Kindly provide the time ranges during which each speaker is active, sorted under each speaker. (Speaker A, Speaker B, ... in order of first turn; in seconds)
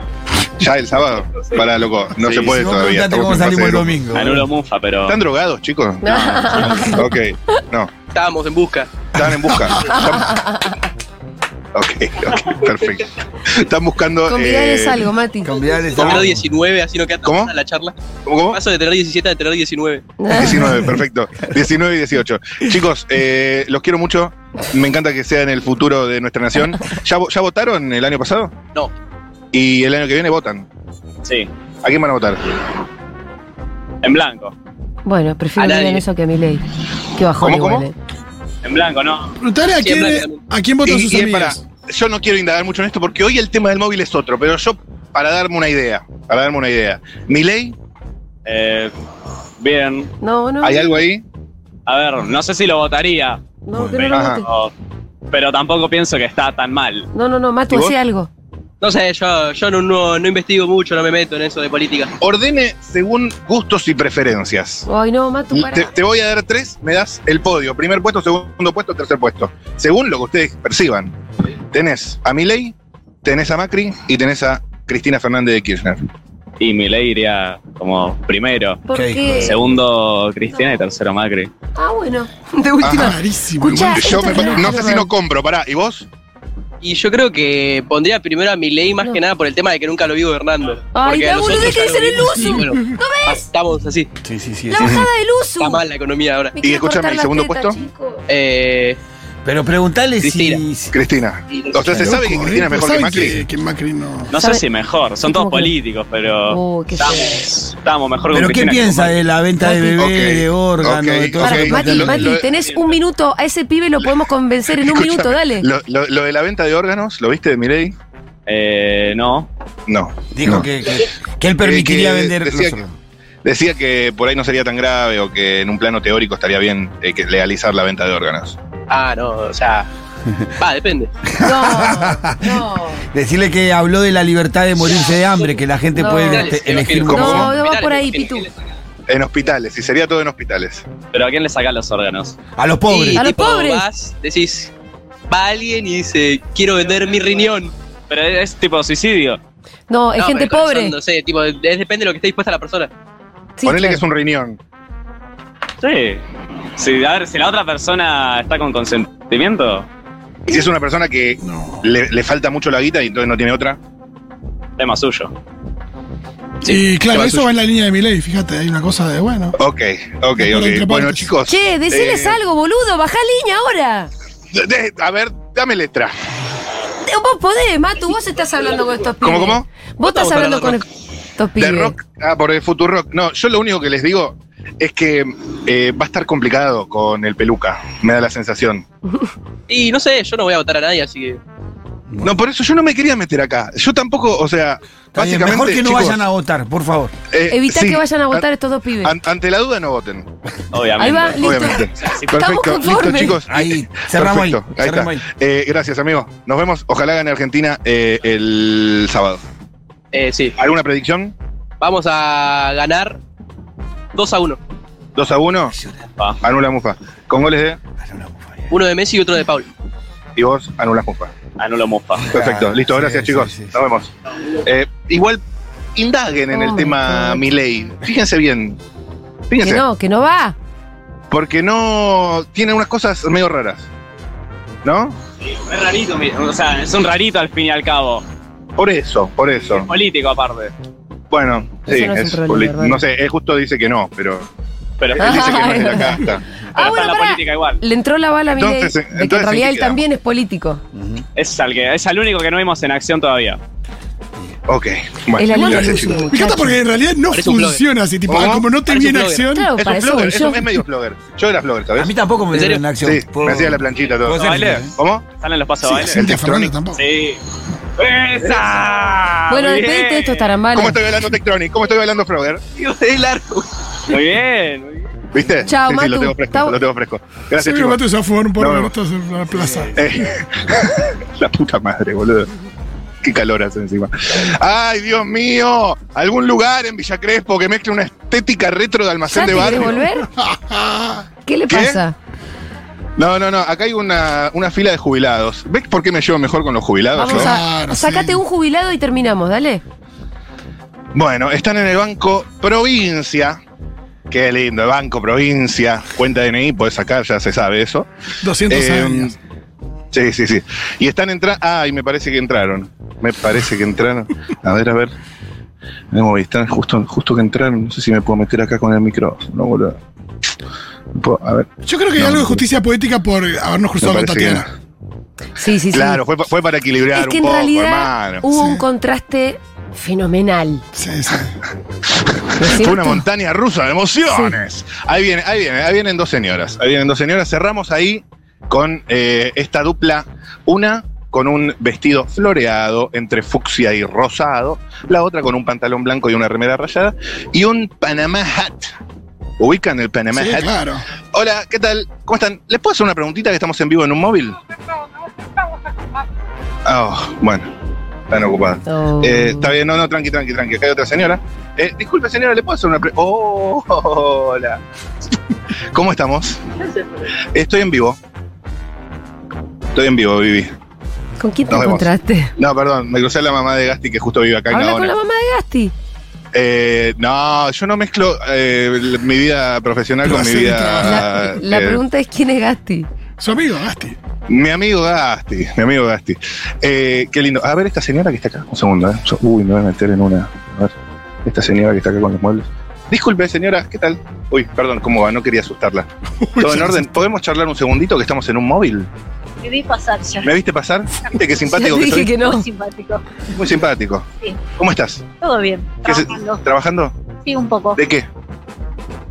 Speaker A: 0.6-4.0, 5.1-7.9, 9.1-10.4, 11.7-15.1, 16.0-16.3, 17.2-17.5, 18.2-18.6, 20.3-28.5, 29.5-30.7, 31.8-32.4, 37.4-37.9, 40.8-47.8, 50.6-51.2, 54.1-54.4, 57.7-58.0, 62.2-64.8, 65.5-71.1, 71.7-76.0, 82.8-83.2, 83.9-86.1, 94.8-95.1, 96.6-97.8, 100.9-103.4, 110.0-112.6, 114.7-118.0, 119.9-120.7, 121.6-122.8, 123.4-128.6, 137.1-137.5, 139.1-140.9, 153.6-154.6, 160.5-163.8, 169.6-172.4, 174.5-176.2, 179.2-179.7, 181.6-188.8, 192.2-196.2, 197.3-198.5, 199.0-200.3, 201.3-209.4, 210.6-211.3, 215.2-215.8, 216.4-217.8, 220.4-221.3, 222.3-224.1, 224.6-225.4, 226.0-228.8, 229.5-229.8, 231.3-233.9, 234.8-235.2, 238.8-239.9, 241.3-244.5, 245.1-246.4, 248.5-250.1, 254.7-256.3, 258.3-258.7, 259.8-262.1, 263.0-265.3, 265.9-266.8, 270.7-272.6, 275.3-278.0, 278.6-278.9, 279.9-282.5, 283.2-290.0, 291.7-292.0, 293.2-297.6, 301.1-303.6, 304.3-308.1, 308.7-309.3, 310.1-315.1, 316.1-320.0, 321.1-322.6, 324.0-324.7, 325.9-328.4, 332.3-348.9, 349.6-350.8, 351.3-354.6, 356.9-357.7, 358.3-364.8, 365.9-366.6, 367.5-368.2, 369.9-370.7, 371.7-375.1, 376.5-382.0, 384.5-390.9, 391.4-396.1, 396.6-399.1, 400.4-402.4, 403.5-405.2, 406.1-407.1, 408.0-408.3
Speaker B: 2.2-2.6, 4.1-5.2, 31.2-31.5, 34.0-34.5, 38.6-39.4, 48.5-48.9, 49.6-50.1, 51.9-54.7, 55.3-57.1, 76.6-78.8, 79.4-81.5, 104.3-109.2, 112.5-113.0, 118.5-119.5, 141.1-142.4, 148.1-149.4, 155.8-156.2, 156.8-159.9, 164.8-165.3, 200.7-202.5, 216.2-216.4, 221.6-222.3, 235.4-238.2, 239.7-240.7, 245.0-245.9, 246.8-247.8, 251.4-253.6, 264.3-266.3, 266.9-267.4, 268.0-270.5, 274.1-275.1
Speaker C: 2.3-4.5, 15.4-16.5, 78.9-79.6, 94.2-95.0, 99.4-101.0, 101.8-102.1, 108.3-112.3, 120.3-123.0, 131.3-137.6, 142.6-143.2, 195.2-197.2, 203.5-205.2, 218.0-218.7, 222.2-223.8, 251.0-251.2, 262.0-264.9, 279.6-279.9
Speaker D: 6.0-7.1, 9.8-10.8, 14.3-15.8, 20.2-20.7, 35.0-37.9, 50.2-51.0, 53.6-54.5, 57.1-58.3, 64.9-65.9, 78.9-79.6, 81.8-85.1, 90.9-93.5, 94.7-95.8, 96.6-98.2, 104.3-104.7, 105.2-105.7, 106.5-107.5, 109.6-110.0, 111.4-115.7, 131.4-133.0, 135.9-138.5, 143.2-143.9, 149.9-151.0, 153.6-154.0, 171.5-174.1, 177.0-180.9, 181.4-181.9, 197.5-199.2, 201.0-203.4, 226.5-227.5, 229.6-230.6, 241.9-243.0, 245.2-250.8, 255.4-256.8, 259.5-260.8, 269.5-271.0, 275.7-276.8, 289.3-290.3, 291.5-292.1, 297.1-299.8, 325.6-326.2, 327.1-330.8, 332.6-333.2, 334.3-334.6, 358.9-359.7, 371.4-372.5, 374.7-375.9, 381.0-383.1, 401.7-402.7
Speaker E: 8.1-8.9, 15.9-18.0, 18.5-20.1, 35.6-36.0, 39.8-40.4, 58.8-62.1, 86.8-94.1, 95.6-96.6, 98.3-99.0, 100.2-100.6, 101.5-102.0, 128.9-129.9, 130.6-131.1, 134.9-135.5, 136.1-138.4, 142.9-144.7, 145.3-147.7, 150.2-152.9, 166.6-167.5, 180.0-180.8, 189.7-191.4, 210.1-210.6, 211.8-213.2, 214.1-214.6, 218.7-219.7, 257.3-257.8, 258.9-259.5, 262.5-262.9, 268.4-268.8, 272.8-273.6
Speaker F: 39.4-41.6, 82.9-84.7, 102.0-104.3, 161.4-161.9, 166.7-169.6, 170.4-171.3, 255.5-259.7, 266.1-267.0, 277.6-280.1, 289.4-291.2, 297.2-298.4, 308.4-309.4, 321.9-324.7, 328.5-328.8, 331.0-331.5, 350.3-351.1, 380.2-381.2, 383.4-384.2, 396.4-397.1
Speaker G: 399.6-400.5, 401.2-403.4, 404.4-404.7, 405.4-406.6, 407.4-408.0